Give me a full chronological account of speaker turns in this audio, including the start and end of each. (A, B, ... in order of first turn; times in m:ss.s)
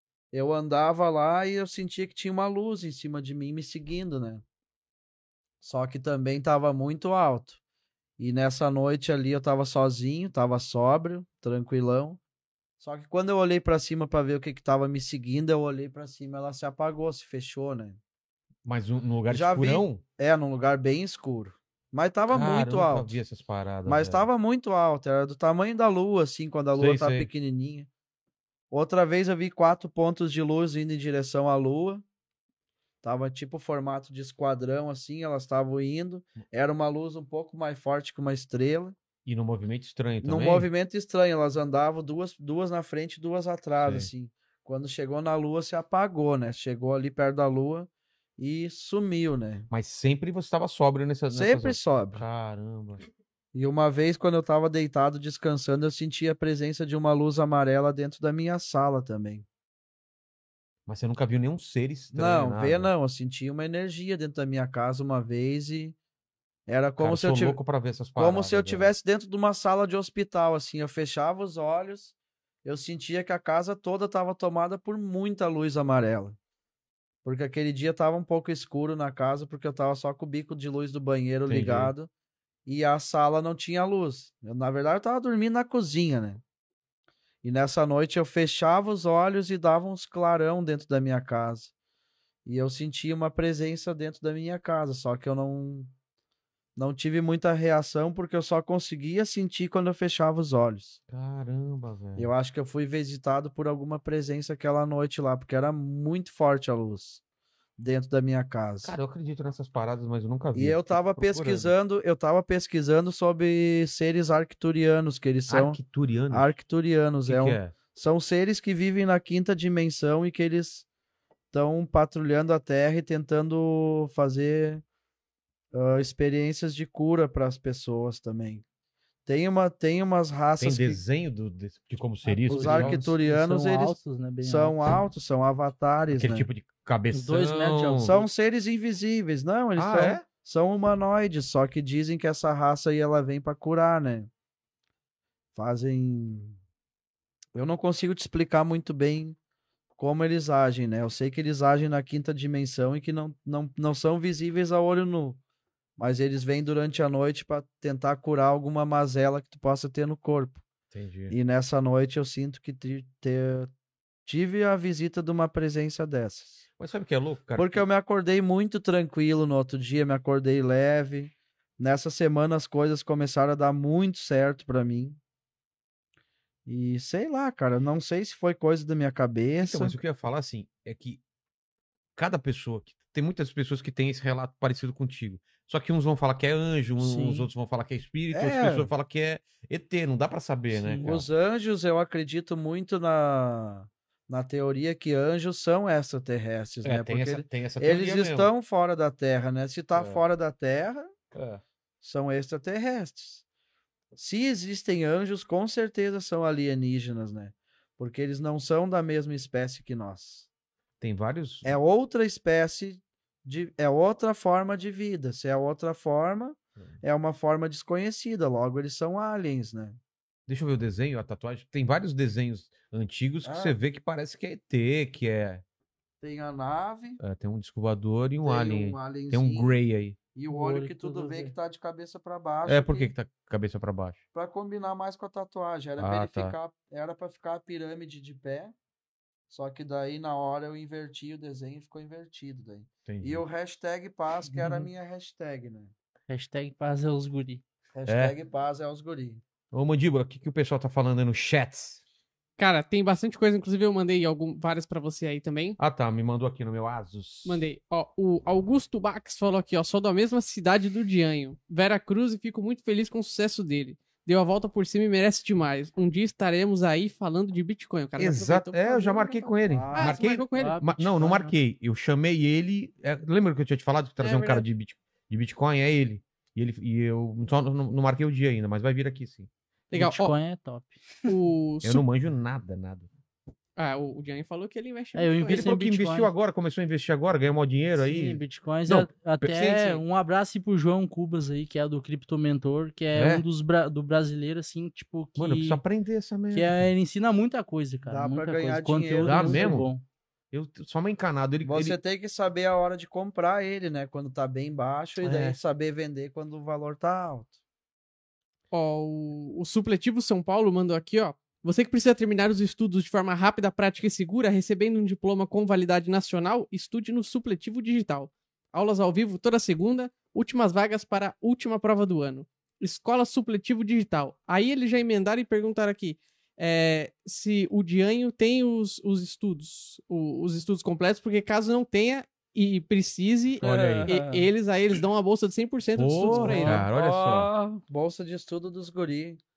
0:00.3-0:04.4 A
0:05.6-0:07.6 A
0:08.2-0:12.2 A
0:12.8-0:18.0 A
0:18.6-0:20.0 B
0:19.3-0:23.2 A
0:22.3-0:24.3 B
0:23.8-0:27.9 A
0:26.7-0:27.3 B
0:28.7-0:32.0 A
0:33.0-0:39.0 A
0:39.2-0:40.7 B
0:40.2-0:49.7 A
0:43.8-0:44.1 B
0:49.7-0:53.0 B
0:51.3-0:52.2 A
0:53.5-0:59.4 A
1:00.9-1:02.9 B
1:02.1-1:06.0 A
1:06.7-1:07.6 A
1:07.0-1:08.9 B
1:08.2-1:12.1 A
1:12.6-1:16.4 A
1:17.2-1:22.1 A
1:21.5-1:21.9 B
1:22.6-1:26.4 A
1:27.4-1:31.7 A
1:32.4-1:35.9 A
1:36.8-1:41.0 A
1:41.1-1:42.3 B
1:42.2-1:47.2 A
1:47.8-1:48.9 A
1:48.8-1:51.7 B
1:50.5-1:55.8 A
1:55.5-1:56.6 B
1:56.3-2:00.8 A
1:57.2-1:57.7 B
2:01.5-2:04.8 A
2:05.7-2:08.6 A
2:09.2-2:11.0 A
2:10.6-2:13.0 B
2:12.2-2:14.8 C
2:12.5-2:16.5 A
2:16.1-2:18.1 B
2:17.1-2:18.3 C
2:18.0-2:24.3 A
2:19.8-2:20.2 B
2:25.5-2:26.6 A
2:27.5-2:29.4 A
2:30.0-2:35.4 A
2:36.0-2:40.6 A
2:40.9-2:41.4 B
2:41.3-2:43.7 A
2:44.2-2:46.6 A
2:46.8-2:47.8 B
2:47.6-2:55.2 A
2:56.6-3:00.0 A
2:59.6-3:01.2 B
3:02.2-3:11.2 B
3:07.0-3:07.5 C
3:08.3-3:08.9 A
3:10.7-3:11.2 C
3:11.0-3:21.1 A
3:16.8-3:18.5 B
3:19.9-3:20.2 B
3:21.3-3:21.6 B
3:22.0-3:23.4 A
3:24.1-3:30.5 A
3:31.0-3:31.7 B
3:31.6-3:40.0 A
3:40.5-3:45.6 B
3:43.4-3:43.8 A
3:46.2-3:47.2 A
3:47.2-3:50.2 B
3:48.4-3:49.7 A
3:50.3-3:53.1 A
3:50.5-3:51.5 C
3:52.6-3:54.2 B
3:54.3-3:58.7 A
3:56.0-3:56.5 B
3:59.5-4:05.9 A
4:03.0-4:03.4 B
4:04.5-4:04.9 C
4:06.3-4:07.6 C
4:07.9-4:09.4 A
4:08.1-4:08.4 B
4:09.7-4:12.0 B
4:12.6-4:15.8 D
4:15.8-4:17.6 B
4:17.4-4:31.0 D
4:28.2-4:39.5 B
4:29.7-4:30.2 A
4:30.5-4:31.5 C
4:34.2-4:34.6 D
4:39.9-4:40.3 D
4:39.9-4:41.0 C
4:41.3-4:42.0 D
4:41.8-4:43.1 B
4:43.8-4:45.7 D
4:45.1-4:46.3 C
4:45.5-4:50.0 B
4:48.0-4:55.8 C
4:53.1-4:53.4 B
4:55.4-4:56.8 B
4:56.5-5:00.0 C
4:58.0-4:59.7 A
4:59.2-4:59.9 B
5:00.5-5:02.0 B
5:01.6-5:07.5 A
5:08.7-5:36.8 D
5:33.6-5:34.1 B
5:33.6-5:34.2 A
5:35.9-5:37.5 B
5:36.3-5:36.8 C
5:36.3-5:39.4 A